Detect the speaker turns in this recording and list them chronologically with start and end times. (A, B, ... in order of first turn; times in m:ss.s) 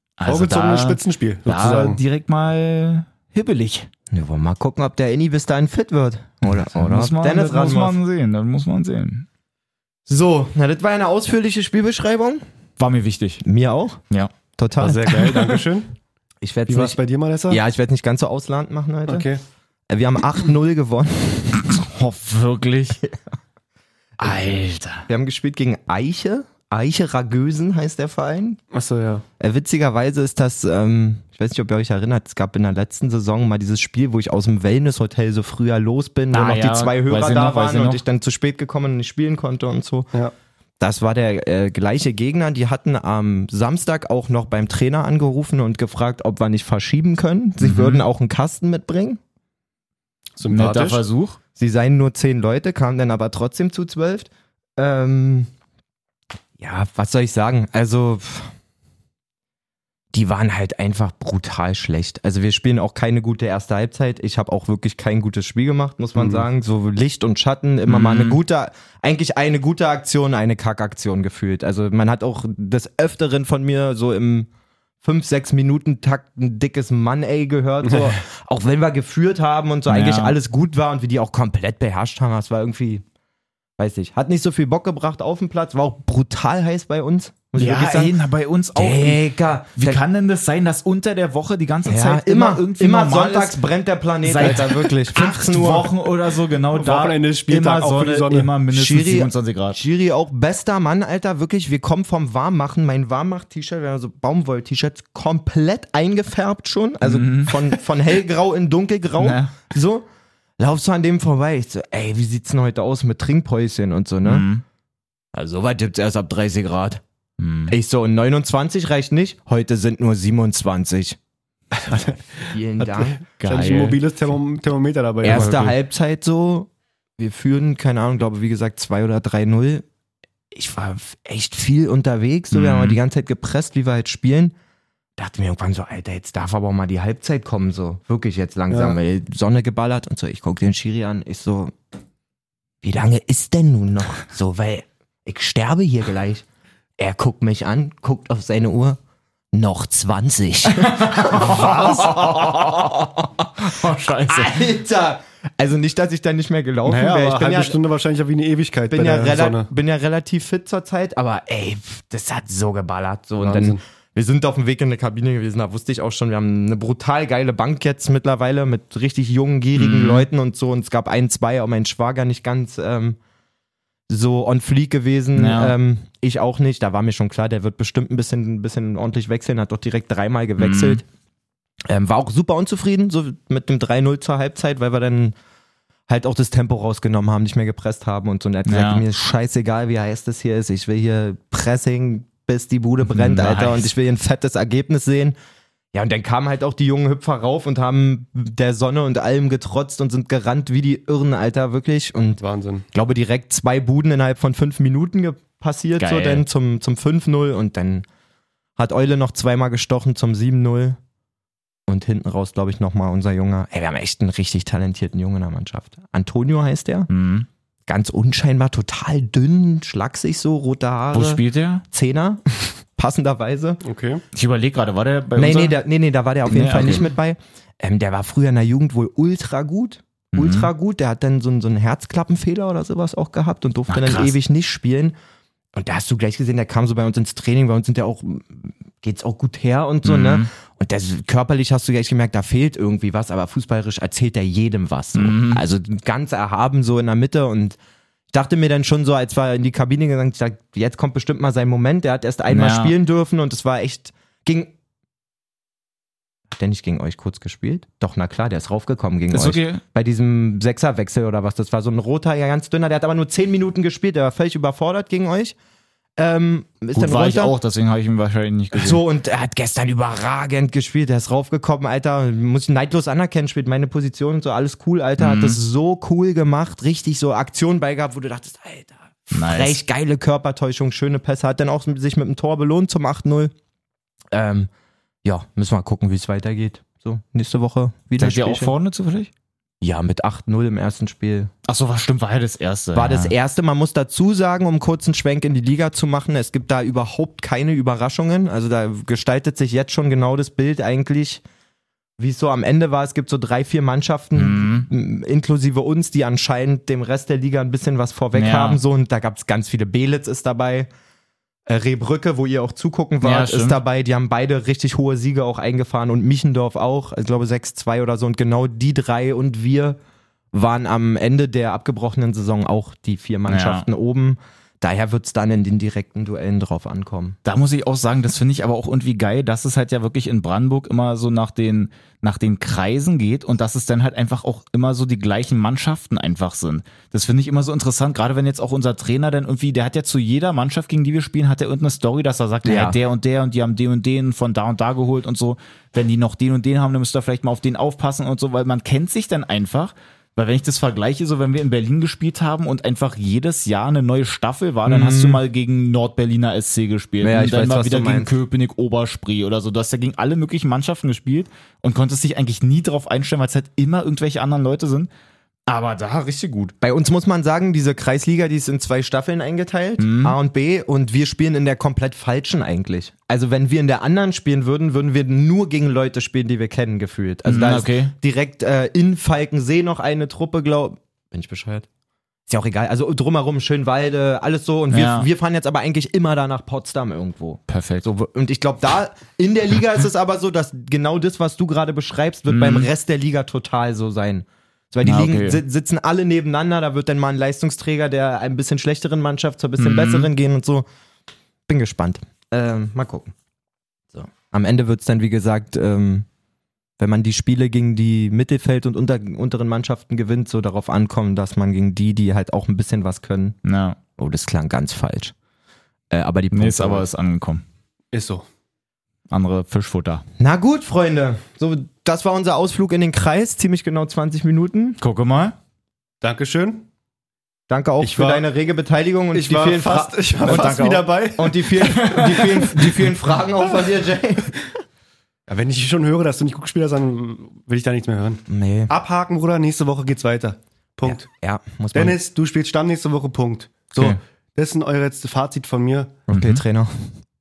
0:00.2-0:03.9 A
0:00.2-0:02.0 B
0:04.1-0:08.0 C
0:06.5-0:09.3 A
0:10.1-0:12.4 C
0:12.8-0:13.4 A
0:13.4-0:14.0 C
0:14.6-0:15.3 C
0:14.8-0:15.9 B
0:16.4-0:17.0 C
0:16.7-0:17.6 B
0:17.5-0:19.3 C
0:19.1-0:19.4 B
0:19.9-0:21.6 C
0:21.6-0:23.0 A
0:24.2-0:25.1 A
0:25.0-0:28.6 C
0:28.7-0:29.2 B
0:29.4-0:40.1 C
0:36.3-0:38.0 A
0:40.8-0:49.2 C
0:47.6-0:48.0 A
0:50.4-0:51.0 B
0:50.5-0:51.4 A
0:51.6-0:55.5 C
0:56.6-0:58.5 C
1:00.1-1:14.5 C
1:06.2-1:06.4 B
1:07.8-1:08.4 A
1:15.0-1:23.0 C
1:17.8-1:18.1 B
1:19.9-1:20.4 A
1:23.8-1:28.2 C
1:27.6-1:29.2 A
1:28.7-1:30.0 C
1:29.8-1:33.6 A
1:31.8-1:35.9 C
1:34.2-1:39.8 A
1:36.7-1:38.5 B
1:38.7-1:50.0 C
1:47.0-1:47.7 A
1:49.2-1:49.5 A
1:50.6-1:54.4 C
1:54.2-1:54.6 A
1:55.3-1:57.0 C
1:57.4-1:57.7 A
1:57.7-2:01.2 C
2:01.7-2:05.7 B
2:02.4-2:03.2 C
2:03.4-2:04.0 A
2:05.2-2:09.8 C
2:05.3-2:05.7 A
2:10.5-2:14.5 C
2:12.5-2:13.0 A
2:15.2-2:21.7 C
2:18.7-2:19.0 B
2:22.8-2:26.4 C
2:27.0-2:29.0 C
2:29.5-2:33.6 C
2:30.8-2:33.0 A
2:33.6-2:34.6 A
2:34.2-2:37.8 C
2:36.8-2:39.7 B
2:38.9-2:53.2 C
2:43.4-2:43.8 B
2:49.7-2:50.3 A
2:54.1-3:01.0 C
2:55.3-2:55.7 A
3:00.6-3:01.0 A
3:01.9-3:05.3 C
3:06.1-3:15.4 C
3:08.6-3:09.0 A
3:13.1-3:13.9 A
3:15.9-3:22.4 C
3:22.4-3:22.8 B
3:22.9-3:28.0 C
3:26.0-3:26.4 A
3:28.8-3:31.0 C
3:31.9-3:37.1 C
3:37.1-3:37.5 A
3:37.9-3:43.8 C
3:41.1-3:41.8 A
3:43.8-3:44.2 B
3:44.3-3:45.8 A
3:45.4-3:55.2 C
3:46.4-3:47.1 A
3:50.3-3:50.7 A
3:53.9-3:54.3 A
3:55.7-4:07.8 C
4:00.0-4:00.5 A
4:05.1-4:05.6 A
4:08.3-4:14.7 C
4:12.5-4:12.9 A
4:16.6-4:25.5 C
4:19.3-4:19.8 A
4:26.2-4:27.5 C
4:26.9-4:29.0 A
4:28.7-4:43.5 C
4:35.2-4:35.6 A
4:39.3-4:39.8 A
4:44.3-4:44.7 C
4:45.2-4:48.7 C
4:48.2-4:49.3 A
4:49.8-4:51.5 C
4:51.6-4:53.3 A
4:52.9-5:01.4 C
5:02.2-5:10.9 C
5:04.3-5:04.9 A
5:08.3-5:08.8 A
5:11.7-5:20.0 C
5:13.2-5:13.8 A
5:20.5-5:27.4 C
5:23.5-5:23.8 A
5:27.4-6:05.1 A
5:42.6-5:43.0 C
5:54.8-5:55.4 C
5:57.2-5:58.3 C
6:05.7-6:06.7 A
6:06.8-6:21.9 C
6:10.0-6:10.4 A
6:17.4-6:18.1 A
6:22.5-6:40.8 C
6:24.9-6:25.3 A
6:27.7-6:28.0 A
6:32.5-6:32.9 A
6:35.0-6:35.6 A
6:39.8-6:40.3 A
6:41.7-6:43.3 C
6:44.1-6:46.2 C
6:47.0-6:53.6 C
6:53.6-6:54.0 A
6:54.2-6:55.3 C
6:56.1-6:57.0 C
6:56.5-6:57.6 A
6:58.1-6:58.4 B
6:59.3-7:00.2 A
7:00.4-7:05.0 C
7:05.0-7:05.6 A
7:06.2-7:06.8 B
7:07.7-7:14.6 C
7:08.0-7:08.5 B
7:09.3-7:11.9 B
7:10.4-7:11.1 A
7:11.8-7:12.9 A
7:15.5-7:21.3 B
7:18.5-7:18.9 C
7:21.1-7:22.2 C
7:21.9-7:26.2 B
7:26.3-7:27.1 C
7:26.3-7:26.6 A